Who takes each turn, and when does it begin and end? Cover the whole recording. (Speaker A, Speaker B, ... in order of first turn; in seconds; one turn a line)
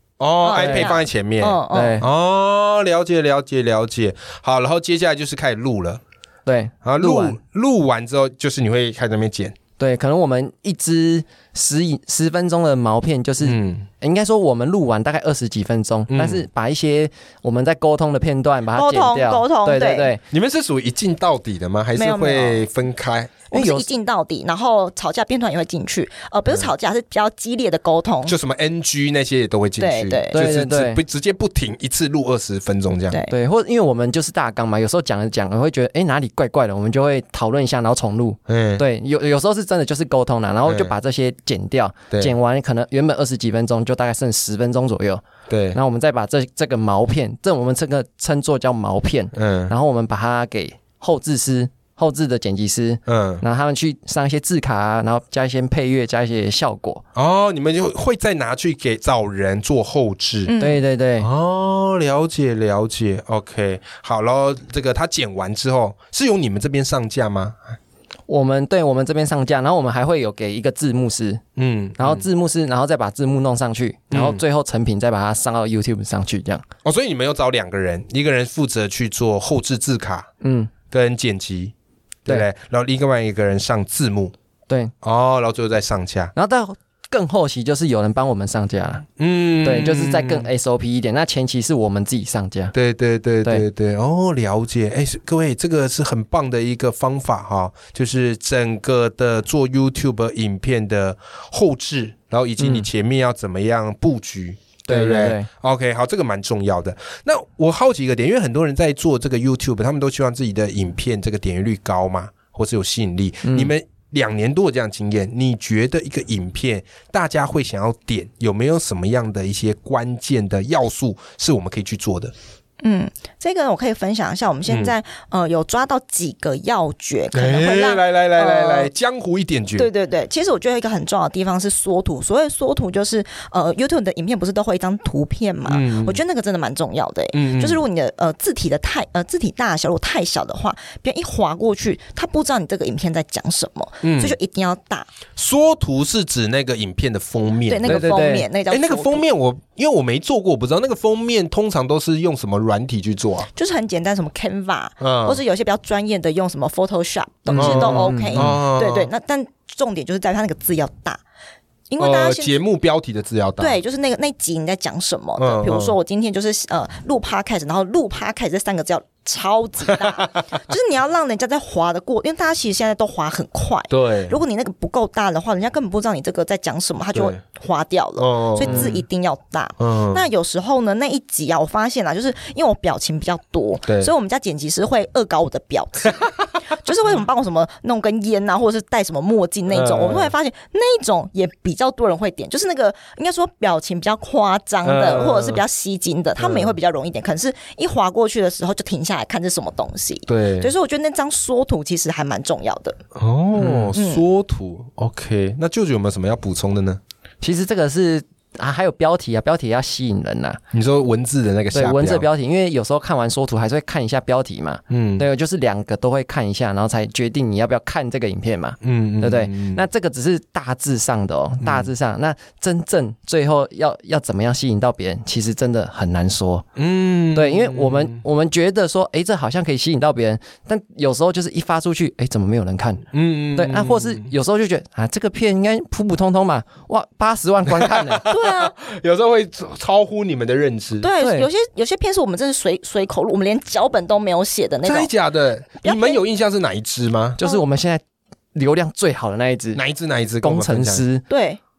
Speaker A: 0.2-6.0
Speaker B: 0.4-2.0
Speaker C: 0.5-0.9
Speaker C: 1.7-2.1
Speaker C: 6.5-7.4
Speaker A: 6.8-9.6
Speaker C: 9.8-20.2
Speaker A: 13.4-13.9
Speaker A: 16.1-16.4
Speaker B: 18.7-20.1
Speaker A: 20.3-23.4
Speaker B: 21.9-22.7
Speaker B: 23.5-28.4
Speaker C: 23.5-23.9
Speaker A: 28.2-33.2
Speaker B: 29.8-30.4
Speaker C: 30.3-31.0
Speaker C: 33.3-45.2
Speaker A: 38.5-38.8
Speaker A: 40.6-41.0
Speaker A: 45.5-45.8
Speaker C: 45.7-57.0
Speaker A: 49.3-49.7
Speaker A: 53.0-53.4
Speaker A: 57.1-60.5
Speaker B: 60.5-60.8
Speaker C: 60.6-61.3
Speaker A: 61.2-67.8
Speaker C: 68.3-71.4
Speaker A: 71.5-72.2
Speaker C: 72.0-76.6
Speaker A: 74.1-74.4
Speaker A: 76.8-80.3
Speaker C: 80.4-80.7
Speaker A: 80.9-81.7
Speaker A: 82.2-84.3
Speaker A: 85.0-86.3
Speaker C: 86.3-89.0
Speaker A: 89.2-90.5
Speaker C: 89.6-92.7
Speaker A: 92.7-122.3
Speaker C: 102.6-102.9
Speaker C: 104.8-105.5
Speaker C: 113.4-113.7
Speaker B: 122.8-128.9
Speaker A: 124.7-124.9
Speaker A: 127.3-129.9
Speaker B: 129.8-145.1
Speaker A: 135.7-136.2
Speaker A: 137.3-137.8
Speaker A: 144.0-144.3
Speaker A: 145.3-153.5
Speaker B: 147.7-149.2
Speaker C: 147.8-148.5
Speaker B: 153.5-161.2
Speaker A: 155.0-155.4
Speaker C: 157.5-158.6
Speaker A: 157.5-159.1
Speaker B: 161.9-162.6
Speaker A: 162.0-163.8
Speaker B: 163.6-203.0
Speaker A: 165.4-165.9
Speaker A: 170.0-170.5
Speaker A: 173.9-174.3
Speaker A: 178.2-179.0
Speaker C: 178.6-178.9
Speaker A: 179.8-180.2
Speaker A: 189.7-190.3
Speaker A: 194.8-195.6
Speaker A: 196.4-196.7
Speaker A: 200.3-200.7
Speaker A: 203.1-207.0
Speaker C: 203.6-203.9
Speaker B: 203.9-204.2
Speaker C: 207.4-210.6
Speaker A: 210.7-212.3
Speaker C: 211.7-226.7
Speaker A: 214.9-215.2
Speaker A: 218.8-219.8
Speaker A: 221.6-221.9
Speaker A: 226.8-228.2
Speaker C: 227.3-238.2
Speaker A: 233.1-234.3
Speaker A: 237.8-241.1
Speaker B: 238.2-238.7
Speaker B: 241.0-245.1
Speaker C: 241.2-241.5
Speaker A: 244.8-247.4
Speaker B: 245.8-246.2
Speaker C: 247.4-248.0
Speaker C: 248.5-249.8
Speaker A: 249.7-251.1
Speaker C: 250.4-251.2
Speaker B: 251.3-251.6